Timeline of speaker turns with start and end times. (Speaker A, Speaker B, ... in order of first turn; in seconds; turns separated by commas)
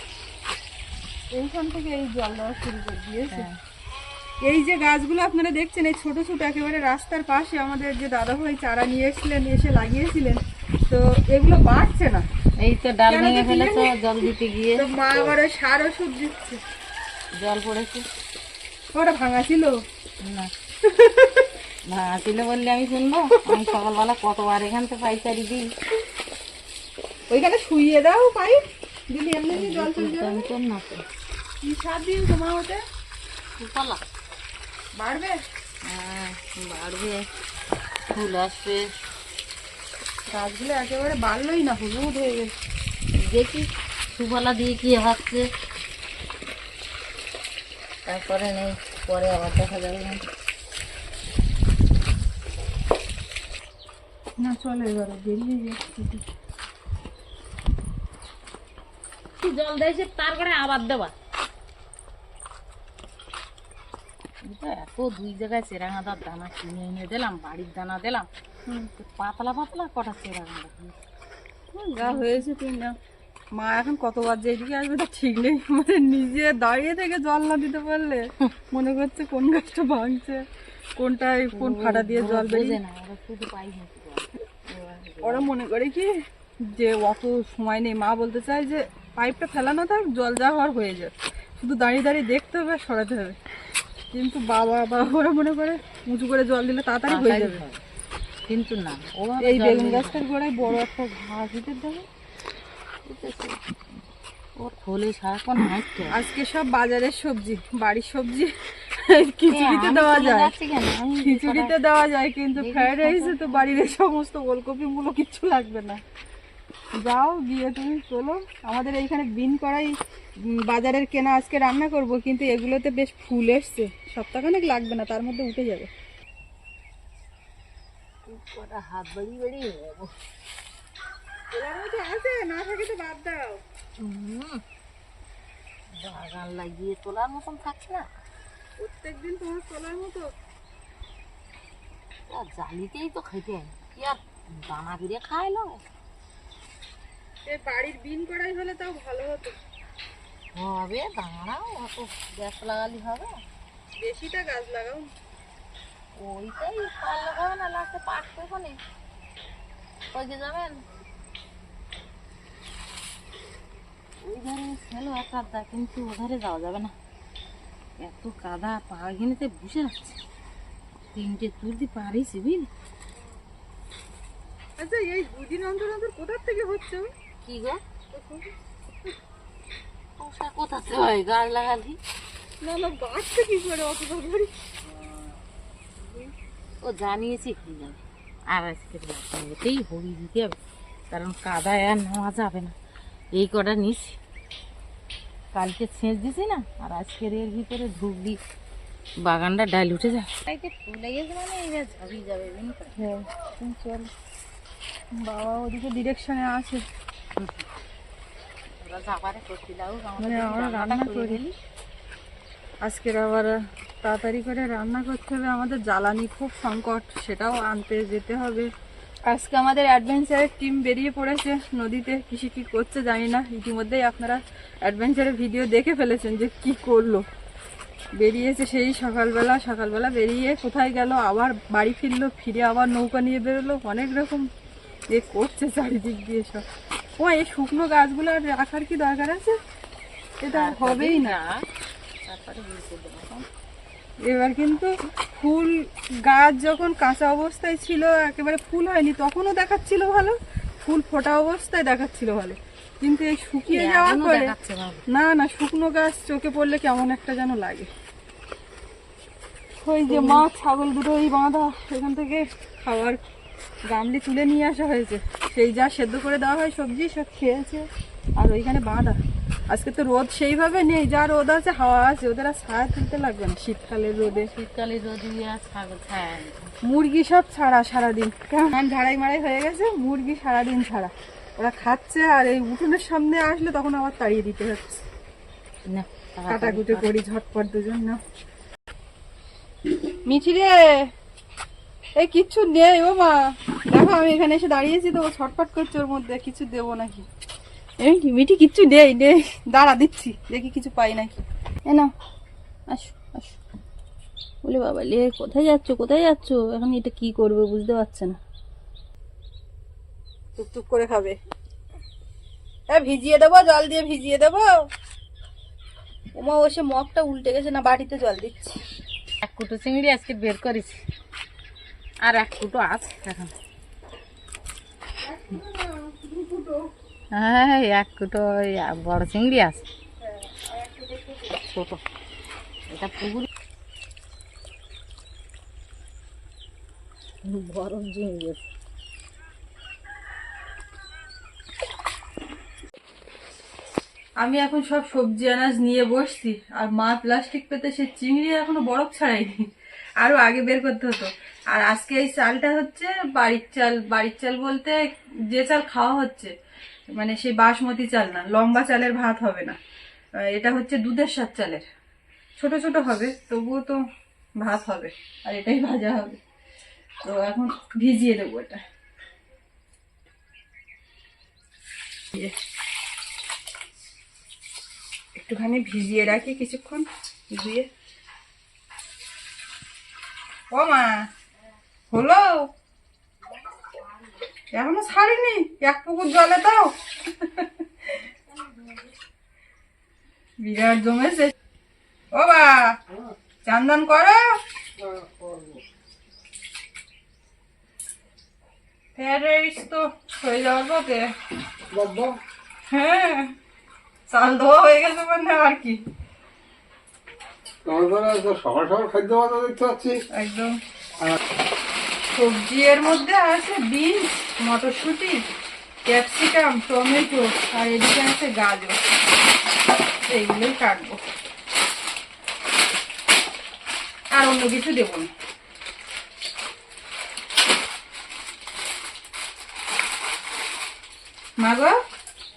Speaker A: 1.3-3.5, Speaker B: 3.3-3.6, Speaker A: 4.4-12.2, Speaker B: 12.6-15.3, Speaker A: 13.1-14.2, Speaker A: 14.8-16.6, Speaker B: 17.3-18.1, Speaker A: 18.9-19.8, Speaker B: 20.2-20.5, Speaker A: 20.8-21.5, Speaker B: 21.9-25.7, Speaker A: 23.4-23.7, Speaker A: 27.3-30.5, Speaker B: 29.5-31.0, Speaker A: 31.6-32.8, Speaker B: 33.6-34.0, Speaker A: 35.0-35.4, Speaker B: 35.8-37.2, Speaker B: 38.1-38.9, Speaker A: 40.3-42.5, Speaker B: 43.2-45.5, Speaker B: 48.0-50.2, Speaker A: 54.4-56.2, Speaker B: 59.4-61.1, Speaker B: 64.4-68.3, Speaker B: 69.0-70.9, Speaker A: 71.7-73.0, Speaker B: 72.0-72.4, Speaker A: 73.5-80.4, Speaker A: 81.0-82.8, Speaker B: 81.5-85.5, Speaker A: 85.2-86.1, Speaker A: 86.7-93.4, Speaker A: 94.1-97.6, Speaker B: 97.1-97.8, Speaker B: 98.5-100.2, Speaker A: 99.4-102.1, Speaker B: 103.0-103.6, Speaker B: 104.6-106.1, Speaker A: 106.1-110.5, Speaker B: 109.5-111.7, Speaker A: 111.2-116.0, Speaker B: 112.6-113.9, Speaker A: 117.0-125.9, Speaker B: 128.3-130.2, Speaker A: 131.5-133.6, Speaker B: 134.0-134.6, Speaker B: 135.9-138.1, Speaker A: 138.8-140.3, Speaker B: 142.3-145.8, Speaker A: 147.4-149.6, Speaker B: 150.5-153.4, Speaker A: 154.0-155.1, Speaker B: 156.2-158.8, Speaker B: 160.1-160.8, Speaker B: 164.2-166.9, Speaker B: 168.0-170.2, Speaker B: 171.1-172.7, Speaker A: 174.8-177.1, Speaker B: 177.4-177.8, Speaker A: 178.1-178.5, Speaker B: 180.2-182.0, Speaker A: 182.6-184.5, Speaker B: 186.8-188.0, Speaker B: 188.5-190.6, Speaker B: 191.1-192.7, Speaker B: 193.3-194.2, Speaker B: 195.5-198.4, Speaker B: 199.2-203.1, Speaker A: 203.0-204.1, Speaker A: 205.2-206.8, Speaker B: 207.4-207.7, Speaker B: 208.8-211.5, Speaker A: 210.2-211.4, Speaker A: 212.8-218.7, Speaker A: 219.3-227.2, Speaker A: 228.2-234.5, Speaker A: 235.1-236.6, Speaker A: 237.2-239.6, Speaker A: 240.4-241.4, Speaker B: 240.5-241.7, Speaker B: 242.2-243.4, Speaker A: 244.2-254.5, Speaker B: 253.7-255.0, Speaker A: 255.1-257.9, Speaker A: 259.8-263.2, Speaker B: 260.1-260.4, Speaker A: 263.9-269.2, Speaker A: 269.7-274.5, Speaker B: 274.2-276.7, Speaker A: 276.8-285.0, Speaker B: 285.9-287.1, Speaker A: 286.5-288.2, Speaker A: 290.2-291.1, Speaker A: 292.2-297.2, Speaker A: 298.0-301.3, Speaker A: 301.9-302.1, Speaker A: 302.9-303.6, Speaker A: 304.6-308.4, Speaker A: 310.6-311.4, Speaker A: 312.9-314.9, Speaker A: 316.4-318.8, Speaker B: 319.4-321.0, Speaker B: 322.2-323.5, Speaker A: 325.2-326.9, Speaker B: 327.3-329.8, Speaker A: 330.2-331.5, Speaker B: 331.6-332.0, Speaker B: 332.9-333.5, Speaker B: 337.4-338.6, Speaker A: 344.4-349.7, Speaker A: 350.2-356.5, Speaker A: 357.1-359.8, Speaker A: 360.4-361.9, Speaker A: 362.6-364.0, Speaker A: 364.6-366.4, Speaker A: 367.2-368.8, Speaker A: 375.4-377.9, Speaker A: 380.7-381.3, Speaker A: 382.1-382.7, Speaker A: 384.7-388.2, Speaker A: 390.6-391.5, Speaker A: 392.3-393.0, Speaker A: 393.6-394.5, Speaker C: 395.0-395.8, Speaker A: 399.1-401.3, Speaker C: 401.9-402.4, Speaker A: 402.9-403.5, Speaker A: 404.3-406.0, Speaker C: 407.8-410.2, Speaker A: 410.3-410.7, Speaker A: 412.3-415.4, Speaker A: 416.1-419.0, Speaker A: 420.3-421.2, Speaker A: 424.3-425.3, Speaker A: 431.6-432.0